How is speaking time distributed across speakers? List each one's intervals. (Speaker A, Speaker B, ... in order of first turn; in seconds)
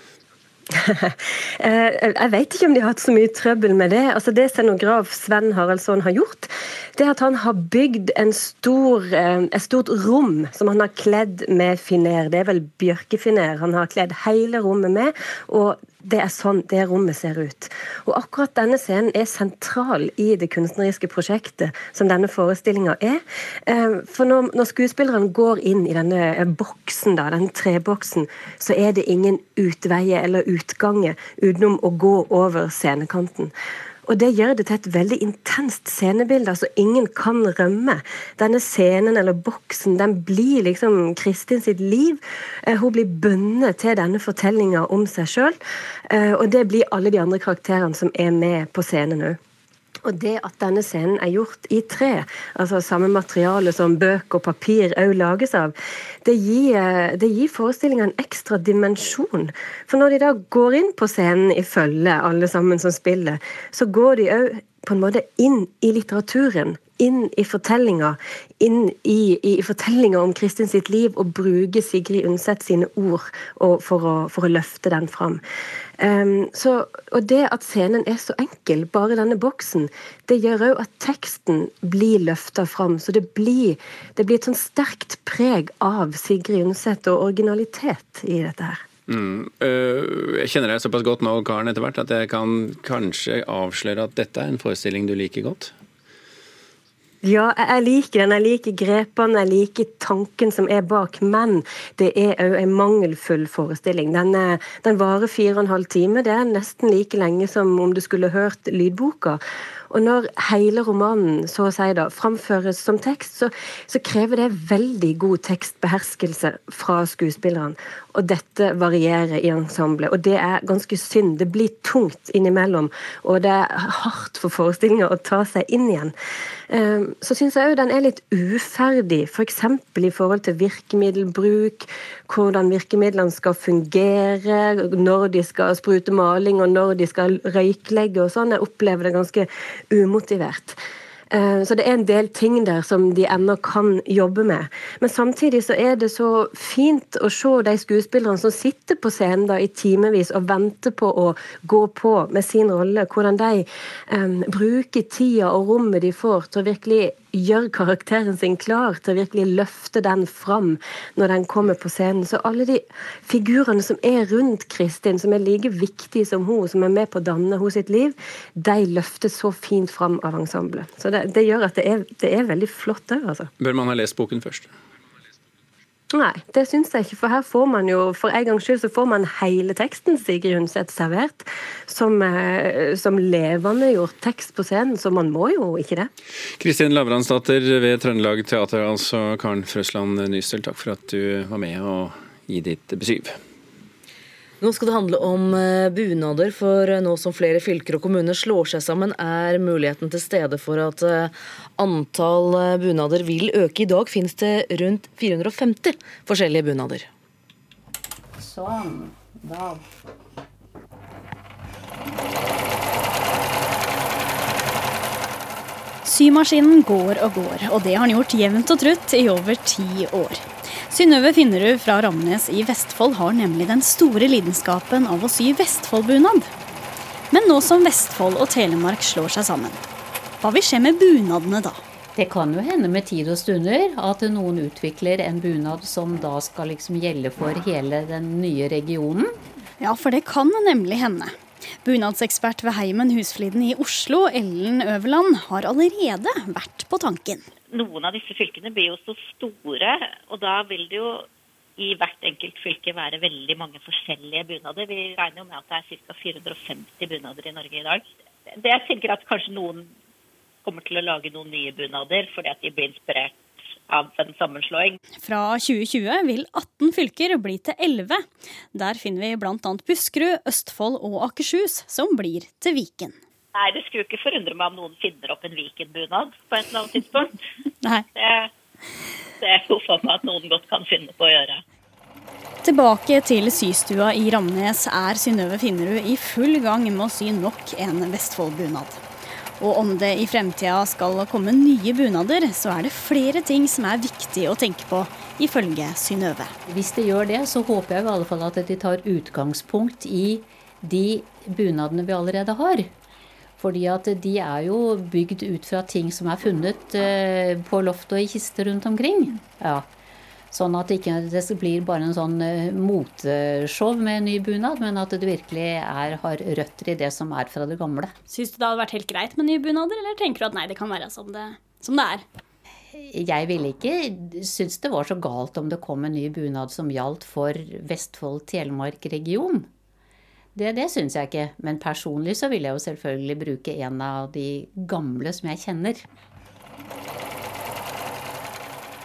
Speaker A: 0.8-33.5, 34.1-45.6, 46.1-49.4, 50.0-55.7, 56.2-75.4, 76.0-88.8, 97.2-126.1, 126.7-140.8, 141.3-173.5, 176.1-186.1
Speaker B: 89.1-95.7, 173.6-174.7, 186.6-193.3
Speaker C: 194.6-207.1
Speaker D: 208.4-209.8, 232.2-239.4, 296.7-302.9, 303.6-309.9, 310.5-318.1, 323.0-329.7, 330.6-336.0
Speaker E: 216.4-216.8, 217.8-220.1, 221.0-226.3, 227.3-229.8, 230.4-231.8, 239.9-241.3, 241.9-247.4, 265.3-268.1, 268.8-273.1, 282.6-289.0, 289.6-296.5, 318.4-322.2
Speaker F: 247.7-251.2, 251.8-259.9, 260.6-263.4, 263.9-265.0, 273.6-277.3, 278.0-278.5, 279.4-281.6